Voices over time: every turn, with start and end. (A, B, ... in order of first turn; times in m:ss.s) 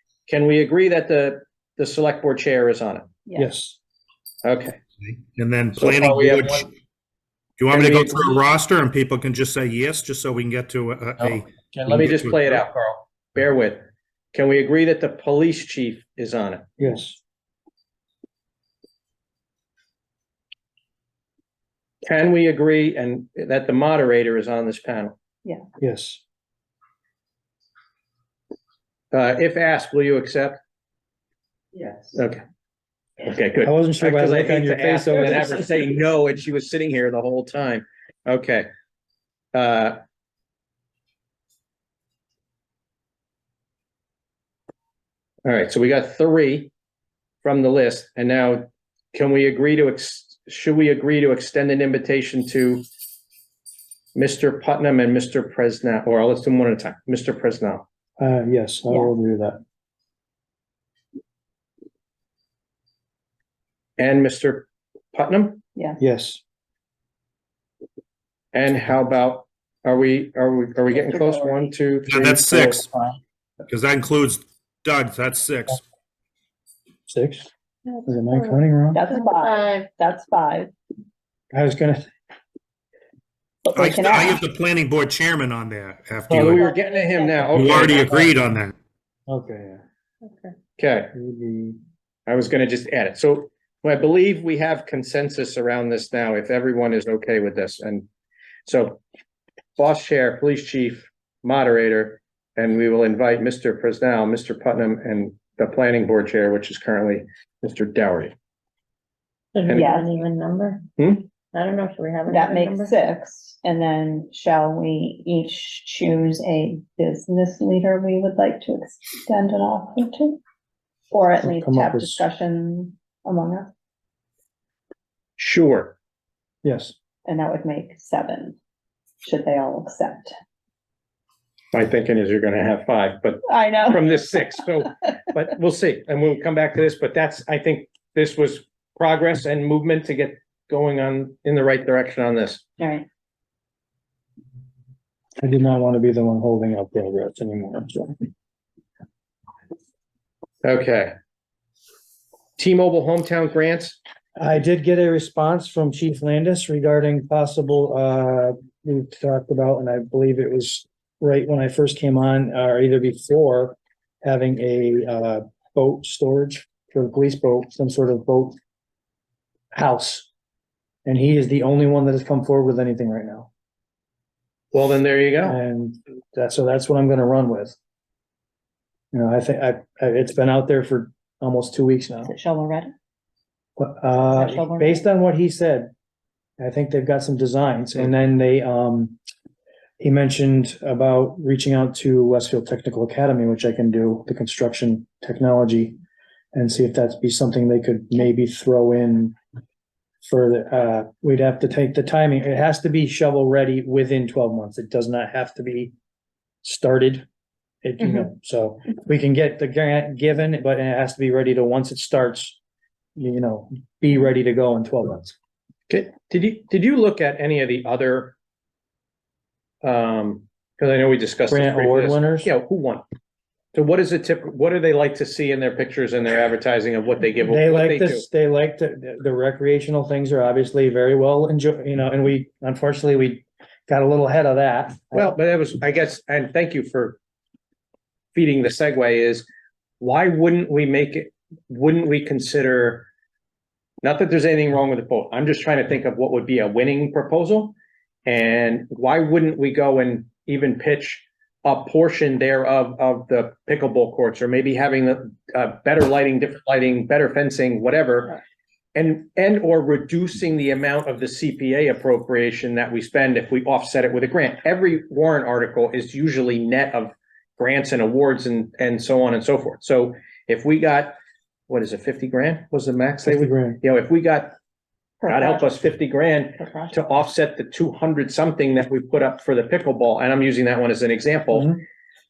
0:00.3-0:03.0 A
0:03.2-0:03.5 B
0:03.4-0:03.8 C
0:04.4-0:04.8 A
0:05.3-0:06.7 D
0:05.8-0:06.7 A
0:07.6-0:12.6 D
0:07.7-0:08.4 A
0:11.2-0:16.7 A
0:16.8-0:17.2 C
0:22.0-0:25.2 A
0:25.8-0:26.2 C
0:29.1-0:30.6 A
0:31.7-0:32.1 B
0:32.1-0:32.4 A
0:33.2-0:38.7 A
0:33.6-0:35.6 C
0:39.5-0:40.0 A
0:45.4-0:46.7 A
0:47.4-0:52.8 A
0:54.1-0:57.8 A
0:58.2-0:59.6 C
1:04.0-1:05.6 A
1:05.7-1:06.0 B
1:06.0-1:06.4 C
1:08.5-1:12.8 A
1:10.9-1:11.7 B
1:12.1-1:12.9 D
1:12.7-1:13.2 C
1:13.7-1:15.8 D
1:17.1-1:17.5 C
1:17.8-1:19.9 E
1:18.0-1:19.0 C
1:18.9-1:20.7 B
1:21.5-1:22.1 C
1:23.6-1:24.4 B
1:23.7-1:26.7 D
1:26.3-1:28.3 A
1:26.6-1:28.0 B
1:27.5-1:28.7 D
1:29.3-1:29.8 C
1:30.2-1:30.5 E
1:30.8-1:31.1 A
1:31.1-1:31.8 C
1:32.3-1:38.1 A
1:38.6-1:39.0 A
1:39.8-1:48.3 A
1:49.5-1:50.9 E
1:49.6-1:49.9 A
1:49.7-1:50.1 B
1:51.0-1:51.3 A
1:51.5-1:53.0 E
1:52.3-2:00.4 B
2:01.1-2:03.7 B
2:01.4-2:02.2 C
2:05.4-2:06.0 A
2:06.6-2:06.9 C
2:07.2-2:08.6 B
2:09.2-2:10.3 B
2:11.7-2:22.6 A
2:13.5-2:14.9 B
2:22.8-2:23.0 B
2:25.4-2:28.2 C
2:30.6-2:31.1 A
2:32.6-2:34.0 A
2:34.4-2:48.6 C
2:49.7-2:50.3 C
2:51.0-2:53.5 C
2:54.7-2:55.6 A
2:55.4-2:57.8 C
2:59.1-3:02.3 C
3:02.2-3:02.9 B
3:03.8-3:05.9 C
3:04.3-3:05.0 B
3:06.6-3:09.2 C
3:10.0-3:16.0 C
3:16.5-3:19.3 C
3:20.2-3:25.9 C
3:26.6-3:27.2 C
3:27.8-3:32.6 C
3:33.2-3:35.3 C
3:35.9-3:38.4 A
3:39.8-3:43.0 A
3:41.5-3:42.5 C
3:43.7-3:48.2 A
3:47.4-3:55.4 C
3:55.1-3:57.2 A
3:58.3-3:59.5 A
4:00.0-4:03.1 A
4:04.0-4:07.7 A
4:08.2-4:18.4 A
4:18.9-4:31.2 A
4:31.7-4:34.6 A
4:33.2-4:33.8 C
4:35.2-4:35.7 B
4:35.3-4:41.7 A
4:36.5-4:37.0 B
4:41.5-4:41.8 C